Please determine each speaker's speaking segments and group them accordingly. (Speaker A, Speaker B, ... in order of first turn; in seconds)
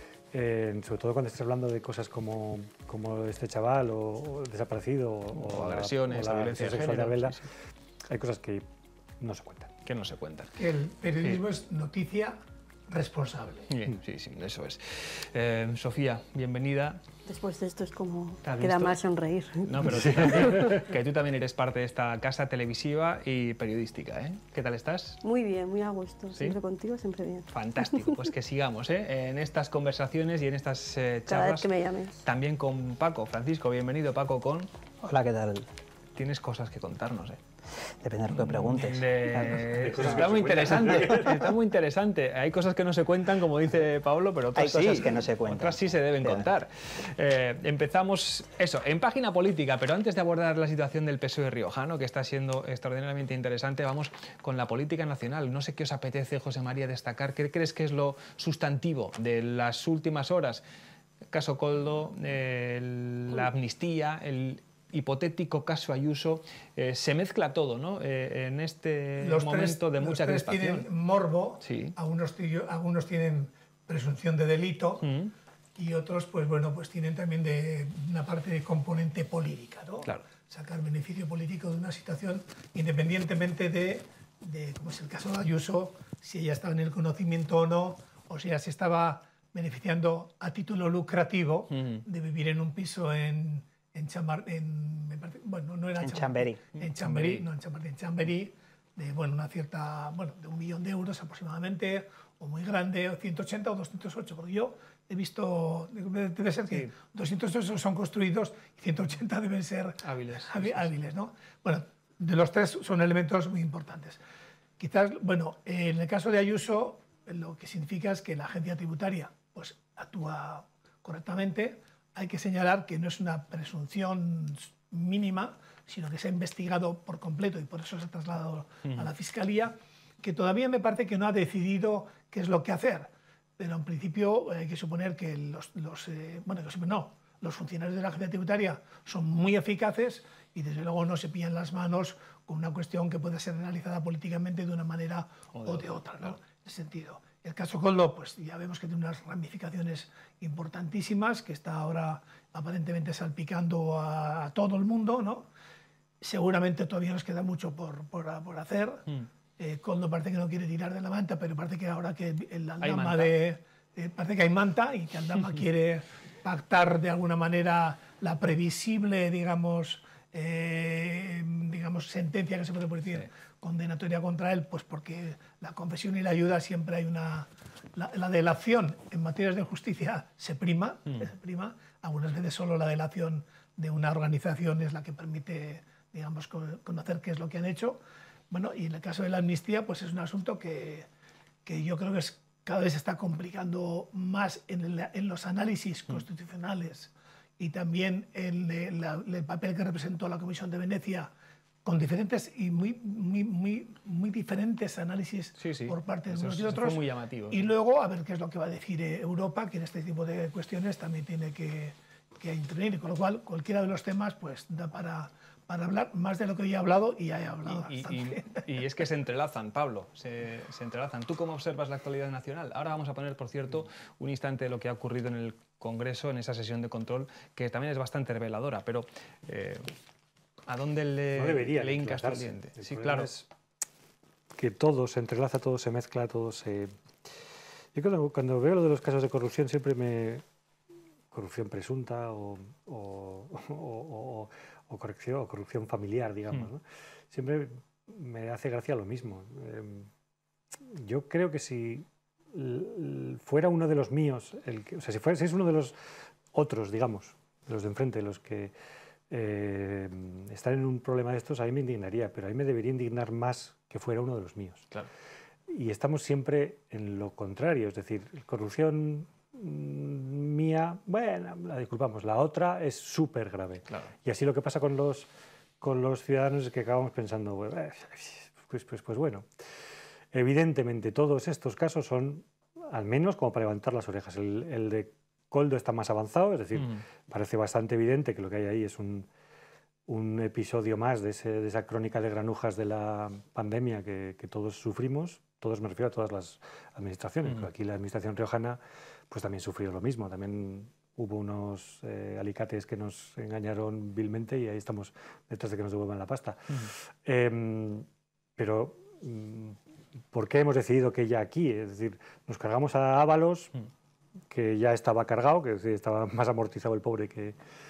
Speaker A: 0.3-7.5, 8.1-8.7, 9.2-9.7, 19.9-20.9, 39.7-41.5, 231.3-233.4, 234.6-236.9, 237.9-240.4, 241.3-250.1, 250.9-256.0, 256.5-258.7, 259.3-264.9, 265.7-275.3, 275.8-279.5, 280.3-289.3, 290.1-309.8, 310.3-313.7, 314.5-317.6
Speaker B: 5.3-7.5, 9.8-10.6, 13.7-17.0, 18.4-19.0, 19.6-25.2, 27.5-31.7, 32.2-34.7, 36.2-37.4, 38.5-60.6, 61.3-70.9, 71.6-72.0, 75.0-75.3, 91.7-92.0, 96.8-97.5, 106.7-107.0, 110.0-110.9, 145.5-146.3, 162.8-163.3, 205.6-207.7, 217.7-229.9, 230.7-233.4, 273.9-274.1
Speaker C: 10.6-12.4, 12.9-13.7, 69.2-75.1, 75.8-114.2, 114.8-155.5, 156.2-159.0, 159.6-188.0, 188.5-191.1, 191.7-201.3, 201.8-218.7
Speaker D: 17.3-20.6, 25.2-28.2, 31.3-32.2
Speaker E: 35.0-35.7, 38.0-39.6, 44.6-46.5, 96.0-96.7